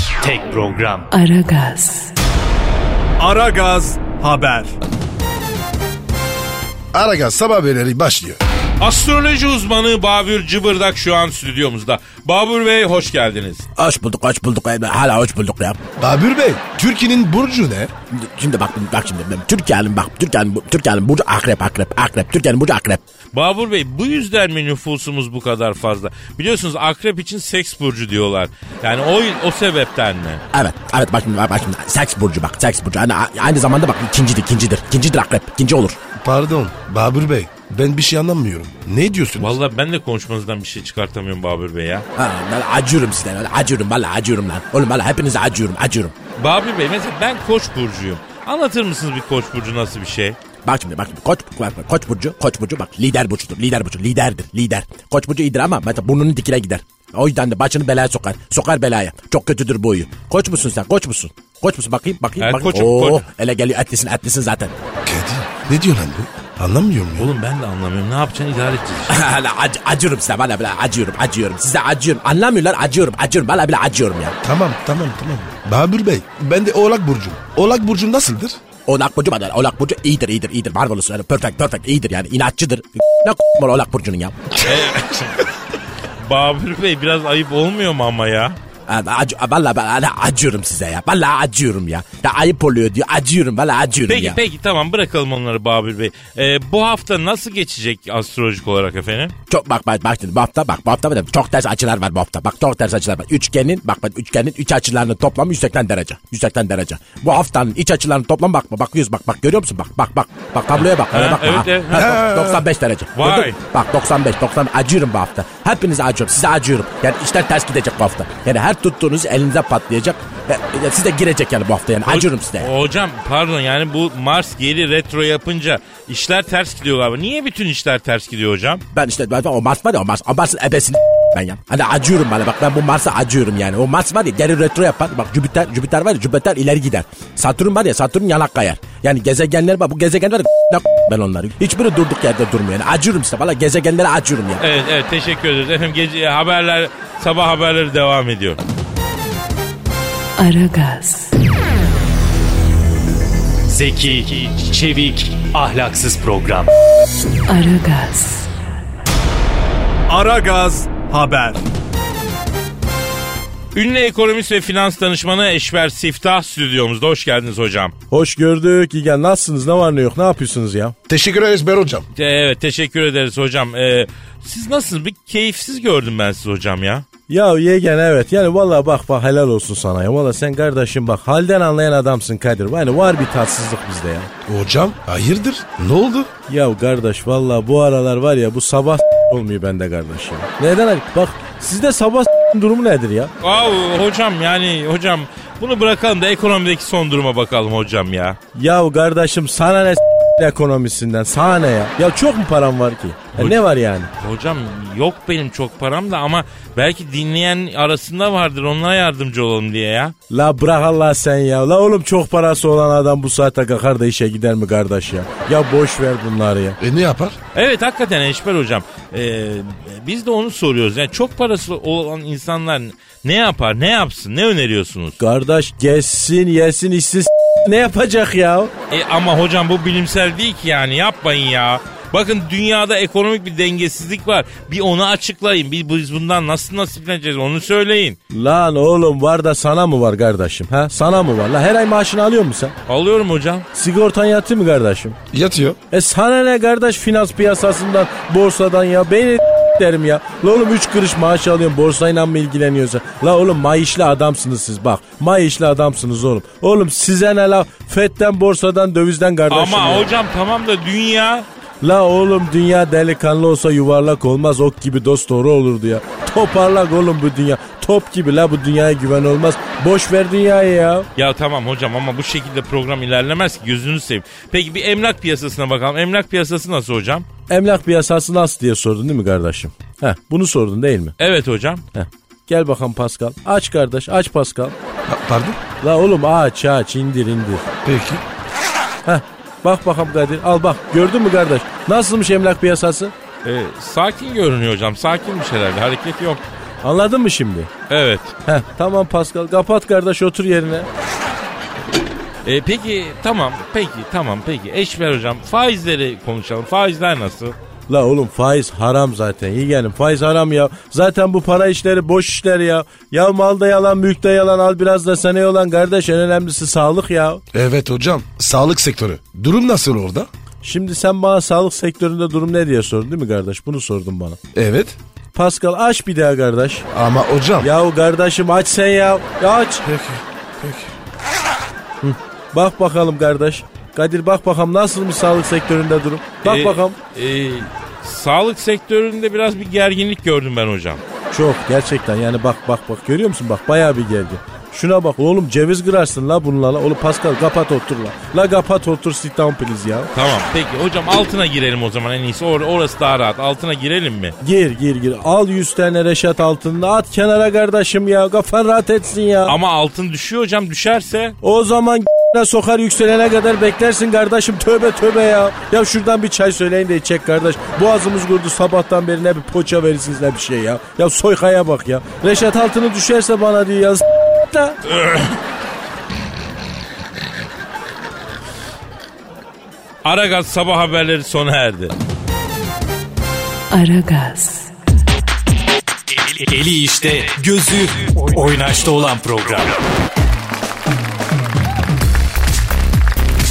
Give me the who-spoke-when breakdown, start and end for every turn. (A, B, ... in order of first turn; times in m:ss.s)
0:00.2-0:01.1 A
0:01.1-0:02.1 B
0:03.2-0:04.8 C
0:06.9-0:08.4 D
0:08.8-0:13.6 E
0:13.8-0:15.8 F
0:16.0-0:17.9 D
0:18.1-0:23.0 F
0:23.3-0:30.4 E
0:30.5-0:36.0 F
0:36.2-0:39.6 D
0:39.4-0:42.1 E
0:42.2-0:46.1 F
0:46.4-0:50.4 E
0:50.6-1:04.7 F
1:02.4-1:03.2 E
1:05.0-1:07.3 D
1:07.2-1:09.2 E
1:09.1-1:14.4 F
1:14.4-1:18.6 D
1:18.9-1:24.6 F
1:24.6-1:25.4 E
1:26.2-1:28.6 E
1:28.9-1:34.4 F
1:34.1-1:39.4 E
1:39.5-2:02.7 F
1:50.8-1:52.2 E
1:51.9-1:52.6 D
1:53.2-1:53.6 E
2:02.1-2:08.8 E
2:08.9-2:24.6 F
2:24.6-2:28.6 E
2:30.4-2:31.3 B
2:33.7-2:36.7 A
2:37.5-2:38.5 B
2:40.1-2:41.6 C
2:43.7-2:47.9 E
2:48.1-2:51.0 G
2:51.1-2:52.1 D
2:52.2-2:57.1 E
2:57.3-3:04.3 G
3:04.5-3:06.3 D
3:06.5-3:13.3 G
3:13.4-3:18.4 E
3:18.6-3:24.1 G
3:23.4-3:23.6 E
3:24.2-3:30.2 E
3:30.3-3:36.8 G
3:36.8-3:37.4 D
3:37.6-3:45.2 E
3:45.2-3:48.7 G
3:48.9-3:58.2 E
3:58.3-4:02.8 G
4:02.9-4:03.7 E
4:03.8-4:05.2 G
4:05.3-4:05.8 D
4:05.9-4:20.1 G
4:19.5-4:21.5 E
4:21.8-4:31.1 G
4:31.2-4:37.3 E
4:37.5-4:41.2 G
4:41.2-4:41.8 E
4:42.0-4:44.8 G
4:45.1-4:45.6 D
4:45.8-4:47.7 G
4:47.8-4:48.2 D
4:49.1-4:53.1 G
4:53.4-4:56.4 E
4:56.8-4:57.7 G
4:57.9-4:58.3 E
4:58.5-5:00.9 G
5:02.4-5:07.6 E
5:07.9-5:17.4 G
5:17.5-5:20.3 D
5:20.6-5:24.4 G
5:24.5-5:25.0 D
5:25.3-5:26.8 G
5:26.9-5:27.7 D
5:27.6-5:29.8 G
5:29.8-5:30.9 D
5:32.0-5:37.0 G
5:36.4-5:41.0 E
5:41.3-5:50.1 G
5:50.1-5:54.4 E
5:54.4-5:59.6 G
5:59.5-6:01.4 E
6:01.4-6:14.8 G
6:14.9-6:15.4 E
6:20.0-6:22.0 E
6:23.7-6:24.7 B
6:26.1-6:29.8 A